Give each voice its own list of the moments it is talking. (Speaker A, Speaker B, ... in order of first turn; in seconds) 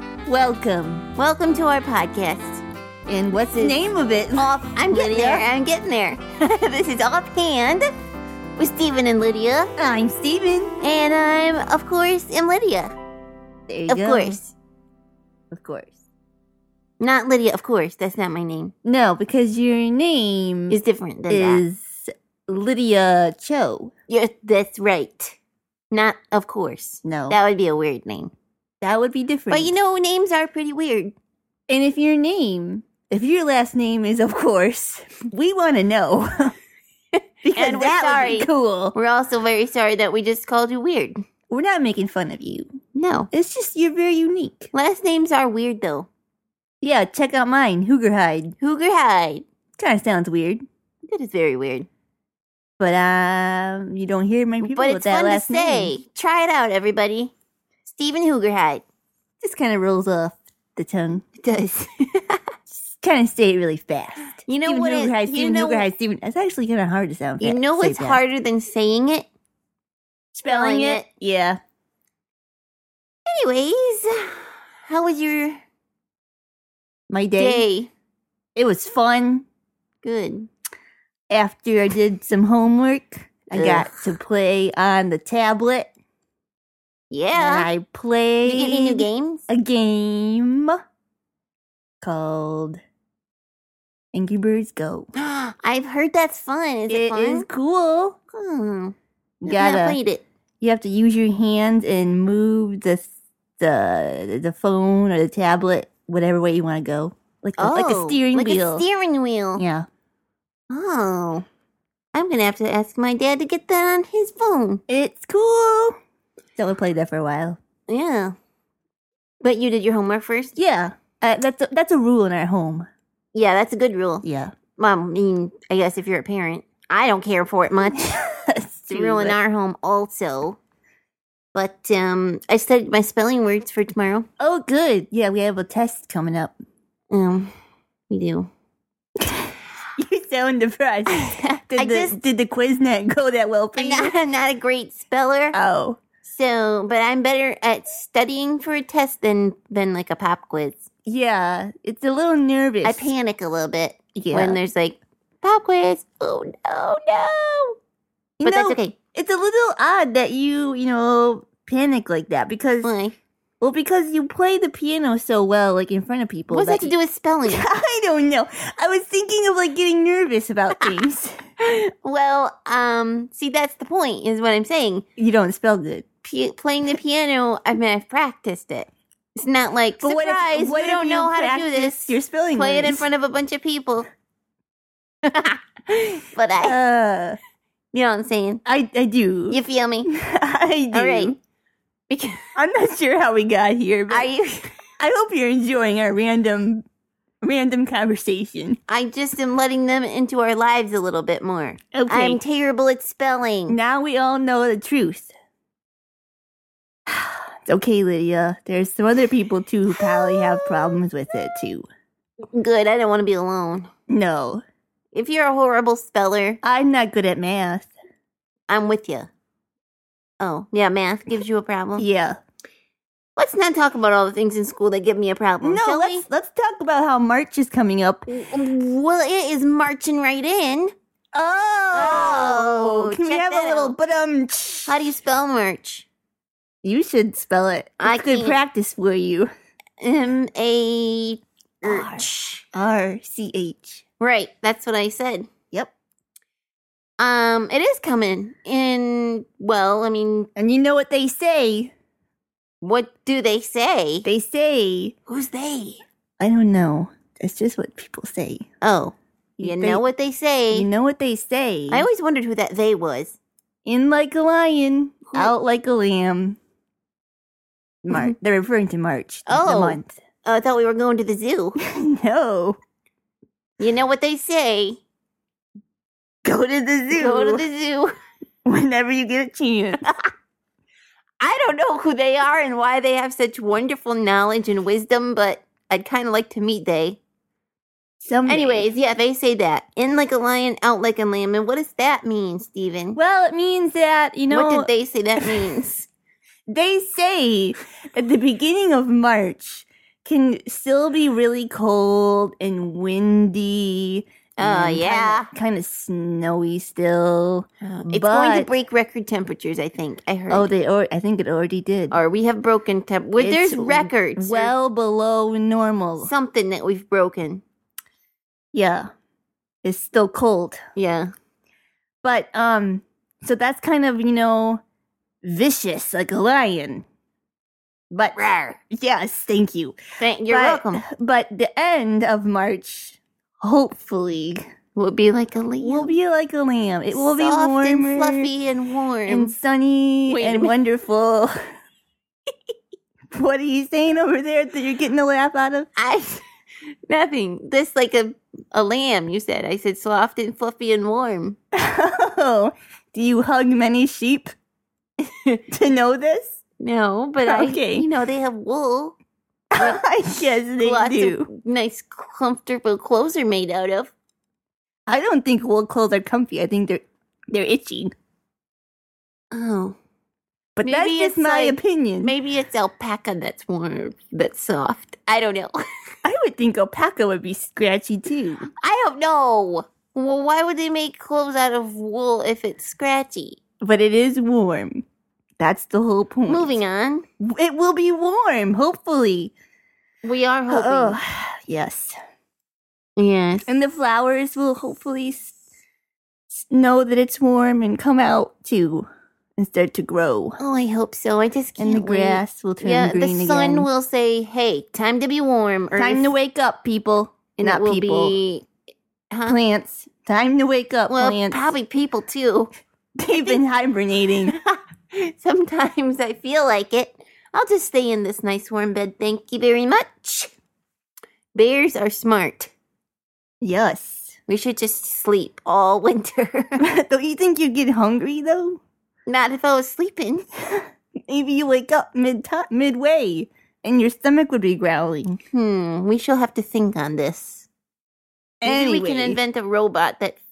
Speaker A: 0.3-1.1, 3.1-5.5, 9.8-10.8, 13.7-14.4, 15.5-16.0, 18.9-20.8, 21.3-23.9, 27.0-27.4, 28.8-29.8, 31.7-36.5, 37.5-39.0, 41.5-42.8, 43.3-44.7, 46.8-48.6, 49.8-50.6, 52.8-55.9, 59.4-61.2, 62.9-68.2, 70.3-71.6, 77.1-77.7, 78.6-79.5, 81.3-85.9, 87.3-90.8, 92.0-92.8, 94.1-95.1, 96.9-98.2, 99.4-100.0, 100.6-108.8, 109.6-109.9, 114.9-116.0, 116.6-117.6, 120.6-122.9, 124.2-124.5, 128.0-129.4, 134.4-136.6, 139.2-144.1, 145.5-146.0, 151.1-153.1, 154.2-154.6, 158.4-162.9, 163.6-166.9, 167.5-171.4, 175.2-176.1, 180.0-183.1, 186.6-187.4, 188.7-191.4, 192.6-194.3, 195.0-196.8, 197.4-198.8, 201.9-202.4, 203.7-205.3, 207.1-211.9, 214.1-214.6, 216.6-217.9, 222.0-222.4, 225.6-228.3, 231.3-235.1, 236.8-239.5, 241.8-244.0, 250.6-251.9, 254.2-255.1, 256.4-258.6, 259.6-260.0, 260.7-262.1, 263.9-266.6, 268.0-270.2, 271.8-272.8, 276.4-277.6, 278.7-280.0, 288.2-288.9, 293.1-294.9, 296.7-308.7, 310.5-312.2, 313.4-316.3, 318.7-319.1, 319.8-320.8, 322.2-324.8, 325.4-327.0, 328.1-328.4, 328.9-329.9, 330.5-334.6, 335.8-338.5, 339.3-341.5, 343.3-345.9, 351.7-354.5, 355.7-356.6, 357.5-358.1, 359.7-361.5, 365.1-368.1, 370.8-372.3, 376.2-378.7, 383.8-385.0, 385.6-386.7, 387.4-389.5, 390.7-392.1, 393.7-395.6, 396.5-400.6, 401.8-403.9, 406.0-408.4, 409.4-411.7, 413.2-414.6, 423.6-424.3, 426.8-428.8, 430.7-435.4, 438.6-439.4
Speaker B: 1.1-2.6, 3.3-3.8, 4.4-7.9, 8.6-9.7, 10.8-12.9, 13.9-14.5, 17.0-18.7, 20.7-21.6, 24.1-25.4, 25.9-28.3, 29.5-31.1, 37.5-41.2, 43.0-43.3, 44.7-46.1, 48.6-49.5, 51.0-51.9, 54.6-57.3, 57.9-58.8, 61.4-62.4, 64.5-65.9, 67.4-69.3, 70.5-71.1, 73.3-75.6, 77.4-77.9, 80.0-80.5, 83.5-84.1, 87.1-87.7, 88.5-89.4, 95.2-97.5, 98.3-99.0, 99.5-100.2, 107.6-109.6, 110.7-111.5, 112.1-114.8, 117.9-118.3, 119.4-120.5, 123.3-128.2, 128.9-130.6, 131.6-134.3, 137.1-137.5, 138.1-138.5, 141.1-142.2, 143.8-145.6, 146.2-150.8, 152.8-157.8, 158.4-159.0, 162.8-163.2, 166.5-167.7, 171.6-175.0, 176.2-184.1, 185.2-186.8, 187.9-188.6, 189.5-190.1, 190.9-191.4, 192.1-192.5, 194.1-194.7, 198.9-203.8, 210.0-211.0, 212.5-213.9, 215.1-216.6, 218.7-219.3, 220.4-222.1, 223.4-226.2, 228.3-230.9, 231.9-234.0, 234.9-236.1, 238.0-238.6, 240.0-242.6, 244.2-245.5, 247.2-250.5, 252.8-254.3, 255.3-256.0, 258.8-260.9, 261.9-263.4, 269.5-271.8, 273.8-275.0, 277.1-278.1, 280.0-280.3, 281.4-287.2, 288.5-293.2, 294.5-296.1, 304.6-305.5, 307.8-310.7, 312.1-314.8, 316.2-317.6, 321.0-321.3, 328.4-328.8, 330.2-331.0, 335.0-336.1, 337.1-339.5, 340.3-340.7, 346.0-346.4, 347.1-351.6, 356.8-359.2, 359.8-364.1, 369.5-370.0, 370.8-375.8, 378.8-383.6, 386.5-387.2, 390.2-391.2, 393.2-393.7, 400.6-406.3, 407.6-408.7, 409.3-409.6, 411.1-412.7, 414.5-420.5, 421.5-422.7, 424.5-426.9, 429.3-430.5, 435.5-437.7, 438.6-440.4